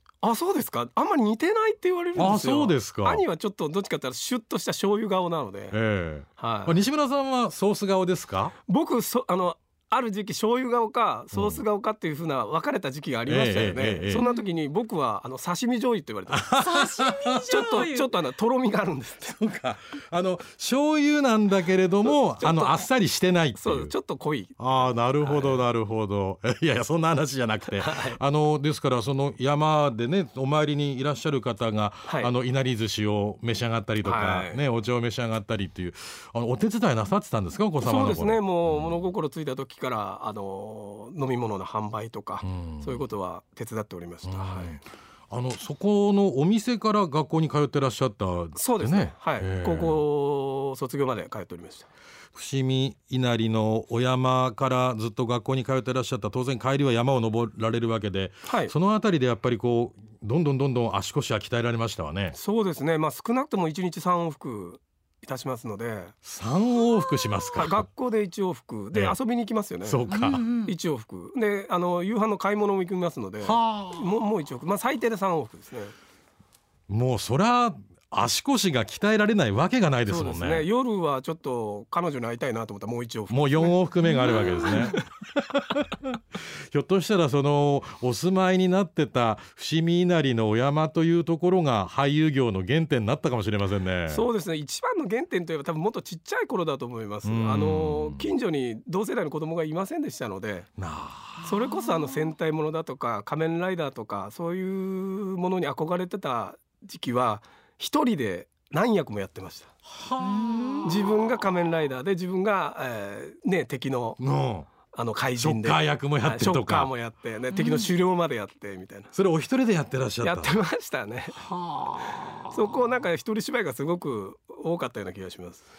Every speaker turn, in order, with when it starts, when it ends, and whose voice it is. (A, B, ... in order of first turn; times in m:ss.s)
0:00.2-0:05.8 A
0:02.1-0:03.2 B
0:05.7-0:08.5 B
0:06.4-0:06.8 A
0:08.6-0:16.6 A
0:11.3-0:11.6 B
0:13.3-0:14.2 B
0:16.3-0:17.3 B
0:16.6-0:18.1 C
0:17.4-0:19.4 A
0:19.2-0:23.9 B
0:22.0-0:22.9 A
0:23.6-0:25.6 A
0:24.6-0:39.0 B
0:27.7-0:28.2 A
0:32.0-0:32.3 A
0:34.0-0:34.6 A
0:37.8-0:44.8 A
0:42.4-0:43.0 B
0:44.2-0:50.0 B
0:48.5-0:51.9 A
0:52.3-1:02.4 B
0:58.4-0:58.7 A
1:02.3-1:06.1 A
1:06.2-1:07.9 B
1:07.6-1:10.0 A
1:09.8-1:10.4 B
1:10.1-1:10.7 C
1:10.6-1:15.9 A
1:13.4-1:14.1 B
1:16.9-1:20.7 B
1:20.0-1:25.0 A
1:23.3-1:34.2 B
1:34.1-1:40.7 A
1:37.2-1:38.3 B
1:40.8-1:41.5 B
1:41.4-1:49.7 A
1:50.0-1:50.7 B
1:50.8-1:54.2 A
1:54.2-1:54.7 B
1:54.9-1:59.1 A
1:55.4-1:56.9 B
1:59.1-2:00.6 B
2:00.2-2:01.5 A
2:01.4-2:02.5 B
2:02.5-2:05.6 A